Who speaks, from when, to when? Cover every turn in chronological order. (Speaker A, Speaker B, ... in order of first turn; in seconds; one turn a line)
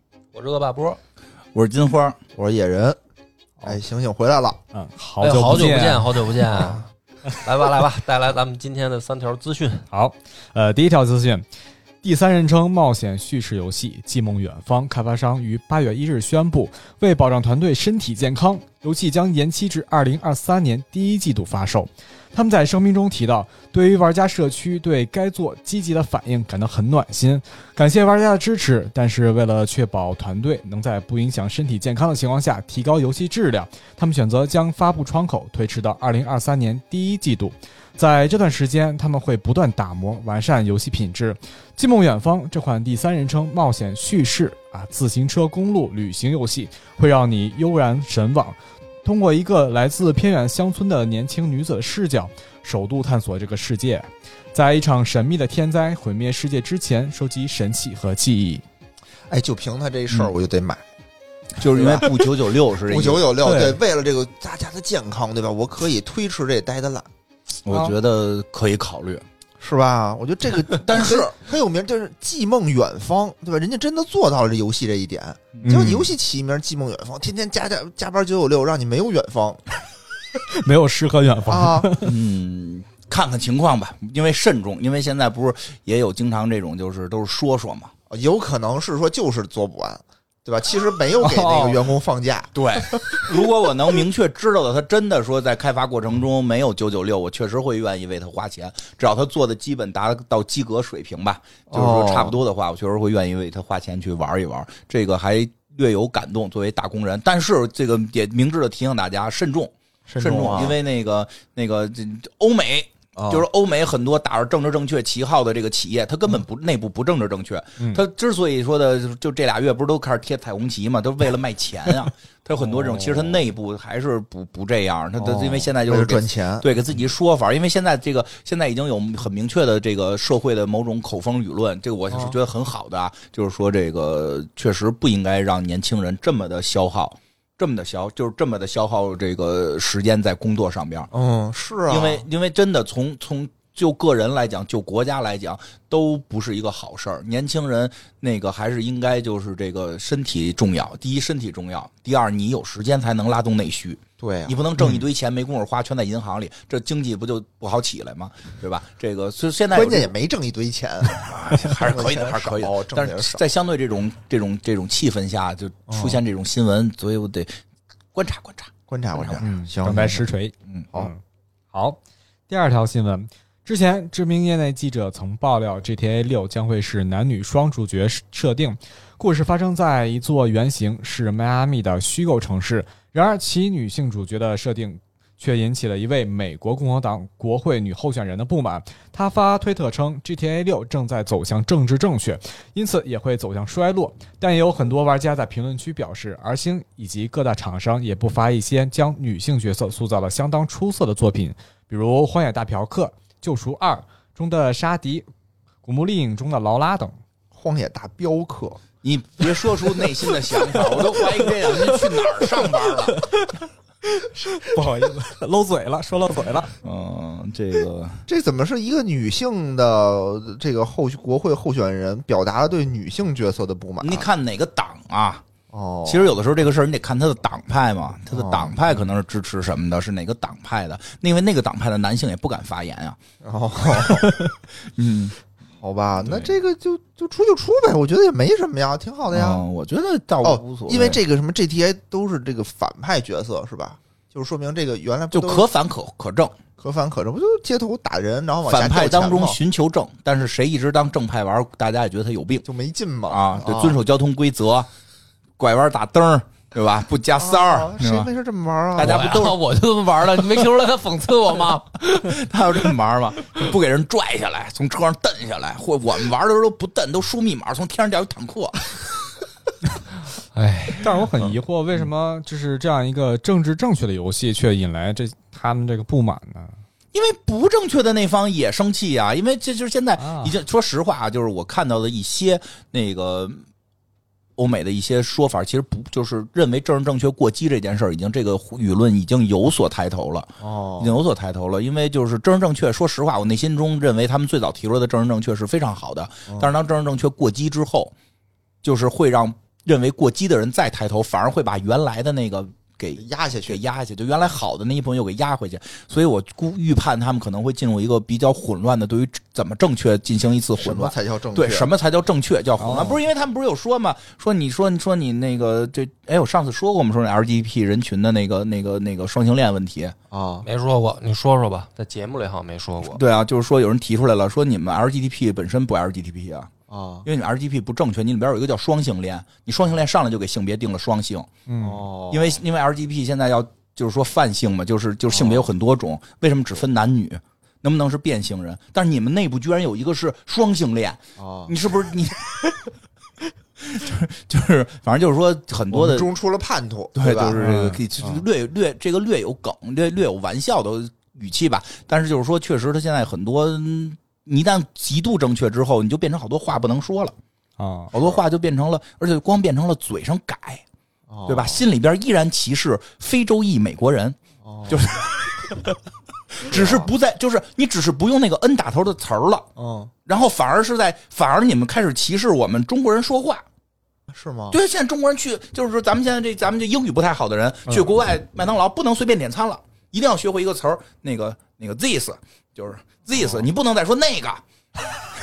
Speaker A: 0.3-1.0
Speaker B: 1.5-2.2
Speaker C: 2.4-3.0
Speaker C: 3.6-4.6
Speaker D: 4.7-6.7
Speaker A: 5.2-9.8
Speaker D: 9.9-11.4
Speaker D: 12.0-58.6
Speaker C: 59.3-60.8
Speaker B: 61.6-63.3
Speaker C: 61.6-67.1
Speaker D: 63.4-63.8
Speaker B: 67.7-69.2
Speaker C: 69.6-79.6
Speaker B: 70.7-71.4
Speaker B: 75.5-76.0
Speaker D: 75.7-76.1
Speaker D: 80.6-82.1
Speaker C: 81.5-81.9
Speaker B: 82.0-87.9
Speaker C: 88.1-93.3
Speaker D: 91.2-91.8
Speaker B: 92.5-141.1
Speaker C: 101.7-102.4
Speaker C: 110.1-110.8
Speaker C: 113.2-113.5
Speaker C: 122.8-123.3
Speaker C: 125.2-126.7
Speaker C: 132.1-132.4
Speaker C: 141.1-142.2
Speaker B: 141.9-160.1
Speaker C: 154.2-154.6
Speaker C: 159.7-163.4
Speaker B: 161.1-167.6
Speaker C: 165.9-166.2
Speaker B: 168.2-169.4
Speaker C: 168.9-170.2
Speaker D: 169.4-171.2
Speaker D: 171.7-205.3
Speaker D: 205.8-207.2
Speaker C: 207.5-208.8
Speaker B: 209.0-213.2
Speaker D: 210.5-216.7
Speaker C: 210.8-211.2
Speaker B: 216.8-218.2
Speaker C: 218.3-224.3
Speaker B: 224.0-225.4
Speaker C: 225.7-226.3
Speaker B: 226.1-233.2
Speaker C: 228.3-228.8
Speaker C: 233.4-234.3
Speaker B: 234.9-235.4
Speaker C: 235.8-239.6
Speaker B: 236.3-236.5
Speaker B: 239.3-241.2
Speaker C: 240.4-245.7
Speaker B: 245.3-246.6
Speaker C: 246.8-249.6
Speaker B: 248.7-252.6
Speaker C: 252.7-254.0
Speaker B: 253.3-254.9
Speaker B: 255.6-258.3
Speaker C: 257.4-259.4
Speaker B: 258.9-259.6
Speaker A: 259.0-262.2
Speaker B: 262.0-269.0
Speaker A: 270.5-271.1
Speaker D: 271.0-276.8
Speaker B: 277.1-283.6
Speaker D: 280.2-280.6
Speaker B: 284.6-298.1
Speaker C: 290.6-291.1
Speaker B: 298.8-320.1
Speaker C: 303.2-303.8
Speaker C: 310.8-311.9
Speaker D: 312.8-313.2
Speaker C: 312.8-313.2
Speaker C: 320.3-320.7
Speaker A: 320.6-323.2
Speaker B: 323.1-326.7
Speaker C: 326.9-327.3
Speaker B: 327.2-331.5
Speaker D: 331.7-332.0
Speaker C: 331.8-332.6
Speaker B: 332.3-342.8
Speaker C: 335.3-335.7
Speaker C: 341.4-341.8
Speaker B: 343.8-346.3
Speaker C: 345.9-347.6
Speaker B: 347.1-357.3
Speaker D: 347.6-348.0
Speaker D: 357.8-358.1
Speaker B: 358.1-360.8
Speaker C: 361.3-361.8
Speaker B: 361.5-365.9
Speaker C: 364.6-365.1
Speaker B: 366.6-369.7
Speaker C: 366.6-367.1
Speaker C: 369.8-370.1
Speaker B: 370.3-373.6
Speaker C: 374.3-374.8
Speaker B: 374.7-384.6
Speaker C: 383.4-383.6